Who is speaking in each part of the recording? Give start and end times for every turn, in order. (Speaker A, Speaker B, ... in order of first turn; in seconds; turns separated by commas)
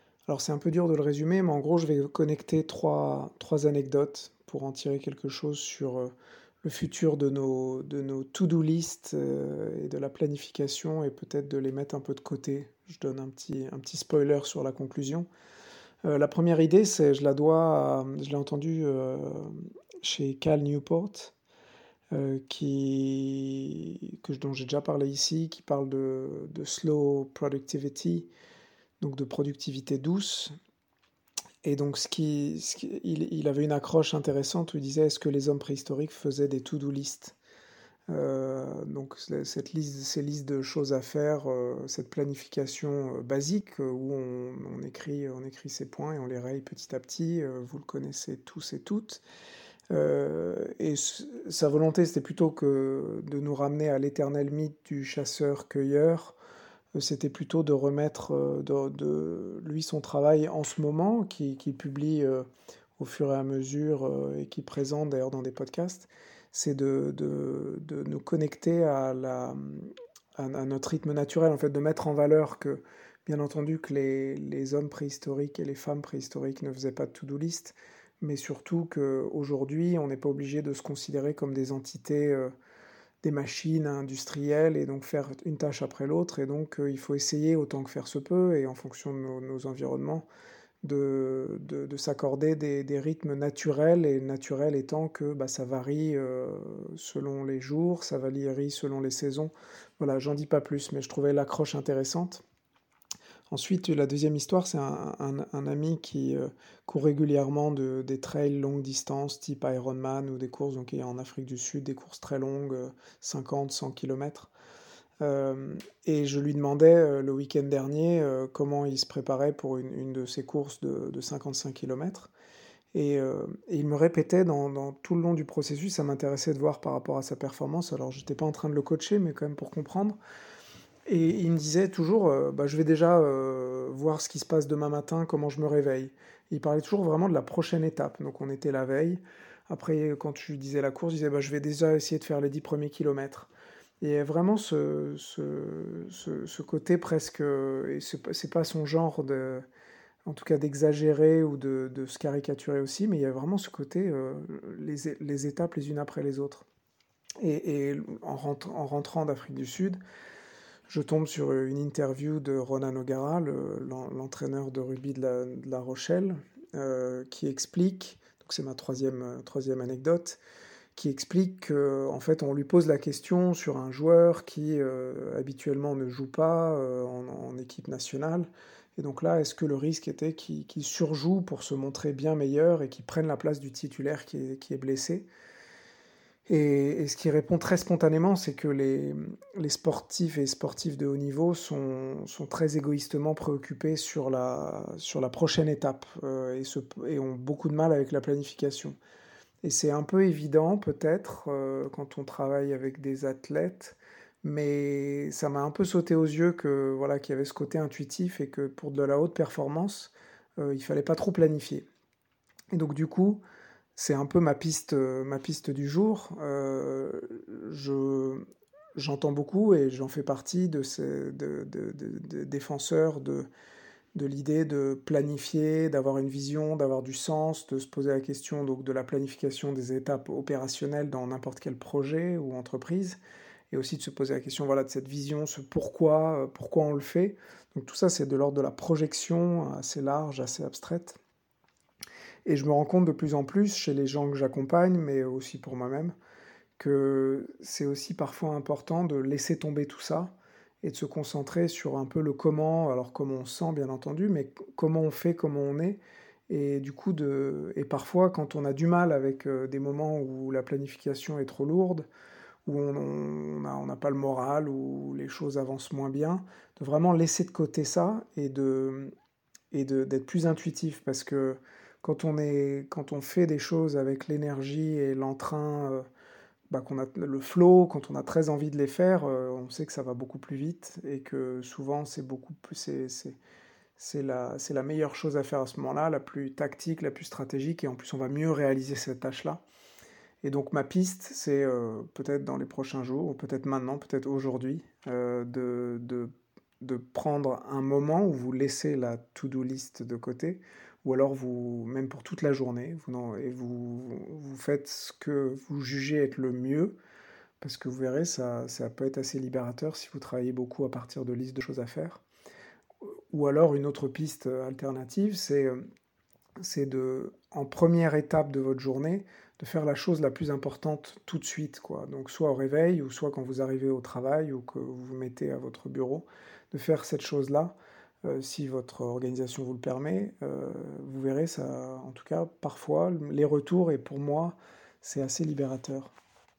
Speaker A: 0.3-6.1, Speaker A: 6.6-15.3, Speaker A: 16.0-21.4, Speaker A: 22.1-28.3, Speaker A: 29.0-30.5, Speaker A: 31.6-37.4, Speaker A: 38.1-49.2, Speaker A: 49.9-56.4, Speaker A: 57.0-62.5, Speaker A: 63.0-82.5, Speaker A: 83.2-90.3, Speaker A: 90.8-102.4, Speaker A: 103.5-114.5, Speaker A: 115.2-122.3, Speaker A: 122.9-130.2, Speaker A: 131.1-143.5, Speaker A: 144.0-149.7, Speaker A: 150.3-156.7, Speaker A: 157.4-160.0, Speaker A: 160.9-170.4, Speaker A: 170.9-185.3, Speaker A: 186.5-198.9, Speaker A: 199.6-211.9, Speaker A: 212.7-213.4, Speaker A: 214.0-223.5, Speaker A: 224.2-233.2, Speaker A: 233.7-241.2, Speaker A: 242.5-246.1, Speaker A: 246.8-262.1, Speaker A: 262.7-269.1, Speaker A: 269.7-276.1, Speaker A: 276.7-283.4, Speaker A: 284.0-289.6, Speaker A: 290.4-307.0, Speaker A: 307.6-312.2, Speaker A: 313.3-315.9, Speaker A: 316.6-336.1